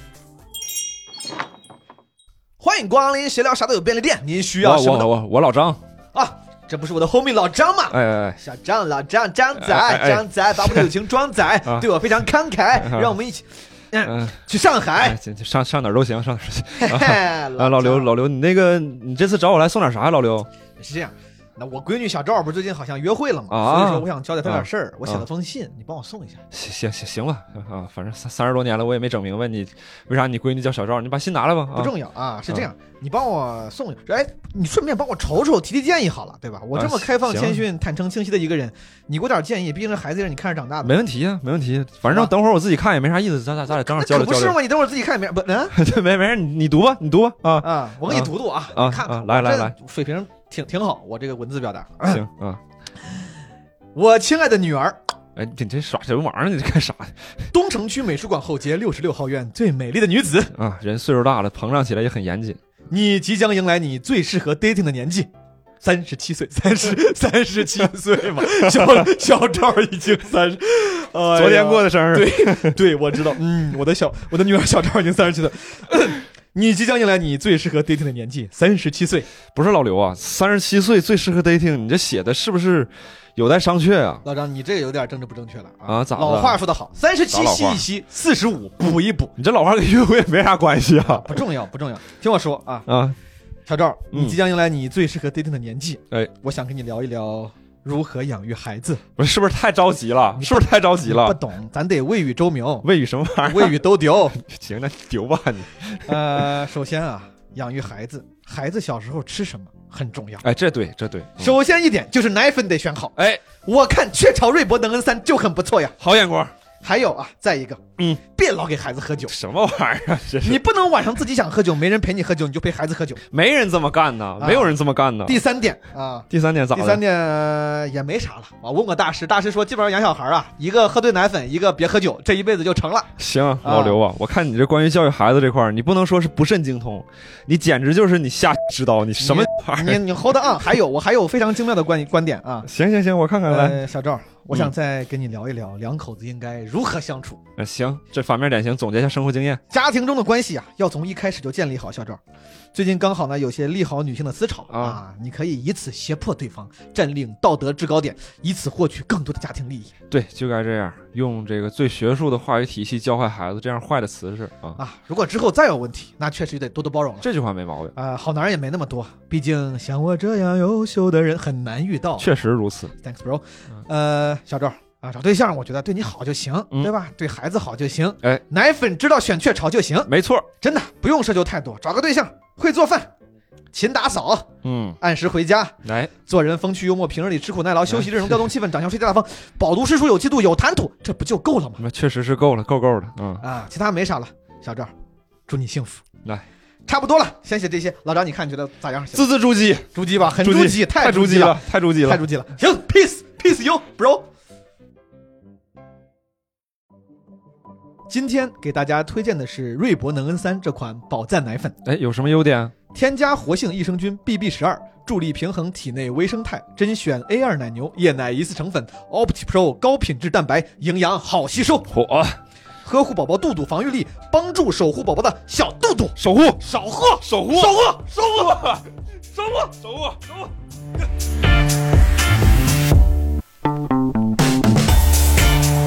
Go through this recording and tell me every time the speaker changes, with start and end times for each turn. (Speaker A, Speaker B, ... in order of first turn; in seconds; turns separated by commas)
Speaker A: 2.6-5.1, Speaker B: 4.6-5.8, Speaker A: 6.2-15.2, Speaker B: 7.9-8.4, Speaker B: 9.6-10.9, Speaker B: 12.8-13.1, Speaker B: 14.0-14.4, Speaker B: 15.0-20.5, Speaker A: 16.8-18.1, Speaker A: 20.8-26.4, Speaker B: 23.5-25.2, Speaker B: 26.5-31.9, Speaker A: 31.7-40.9, Speaker B: 36.7-37.6, Speaker B: 40.8-44.6, Speaker A: 44.0-45.8, Speaker B: 45.7-49.7, Speaker A: 47.6-52.2, Speaker B: 52.1-52.6, Speaker A: 54.0-55.0, Speaker B: 55.4-57.2, Speaker A: 57.5-60.5, Speaker B: 60.5-62.6, Speaker A: 62.9-65.3, Speaker A: 65.8-79.3, Speaker B: 68.5-69.0, Speaker B: 71.3-72.8, Speaker B: 79.5-84.2, Speaker A: 84.2-89.3, Speaker B: 85.9-86.6, Speaker B: 87.3-87.8, Speaker B: 89.4-91.3, Speaker A: 91.1-92.9, Speaker B: 92.9-93.2, Speaker A: 93.7-99.0, Speaker B: 94.1-94.4, Speaker B: 99.2-101.4, Speaker A: 100.4-102.9, Speaker B: 102.8-103.8, Speaker A: 103.5-104.4, Speaker B: 104.4-106.0, Speaker A: 106.1-110.5, Speaker B: 110.4-111.5, Speaker A: 111.4-116.0, Speaker B: 113.2-113.4, Speaker B: 116.0-116.5, Speaker A: 116.8-117.8, Speaker A: 118.3-119.3, Speaker B: 119.3-120.6, Speaker A: 120.4-123.2, Speaker B: 123.3-125.4, Speaker A: 124.4-124.7, Speaker A: 125.2-134.0, Speaker B: 126.3-127.0, Speaker B: 133.2-140.0, Speaker A: 139.2-142.7, Speaker B: 142.7-143.8, Speaker A: 143.5-147.4, Speaker B: 147.6-149.6, Speaker A: 149.7-152.2, Speaker A: 152.7-159.9, Speaker B: 154.7-155.0, Speaker B: 160.1-164.8, Speaker A: 164.8-167.3, Speaker B: 167.2-167.9, Speaker A: 167.9-172.3, Speaker B: 172.2-172.9, Speaker A: 173.0-183.1, Speaker B: 180.1-180.5, Speaker A: 183.7-184.5, Speaker B: 184.6-185.0, Speaker A: 185.0-191.8, Speaker B: 185.8-186.1, Speaker B: 191.8-193.4, Speaker A: 193.4-194.9, Speaker A: 195.5-196.1, Speaker A: 196.9-199.3, Speaker B: 199.1-202.2, Speaker A: 199.9-204.2, Speaker A: 208.1-211.8, Speaker B: 211.8-212.7, Speaker A: 212.9-221.9, Speaker B: 221.9-222.4, Speaker A: 222.8-227.9, Speaker B: 226.2-226.6, Speaker B: 227.2-228.8, Speaker B: 229.4-230.4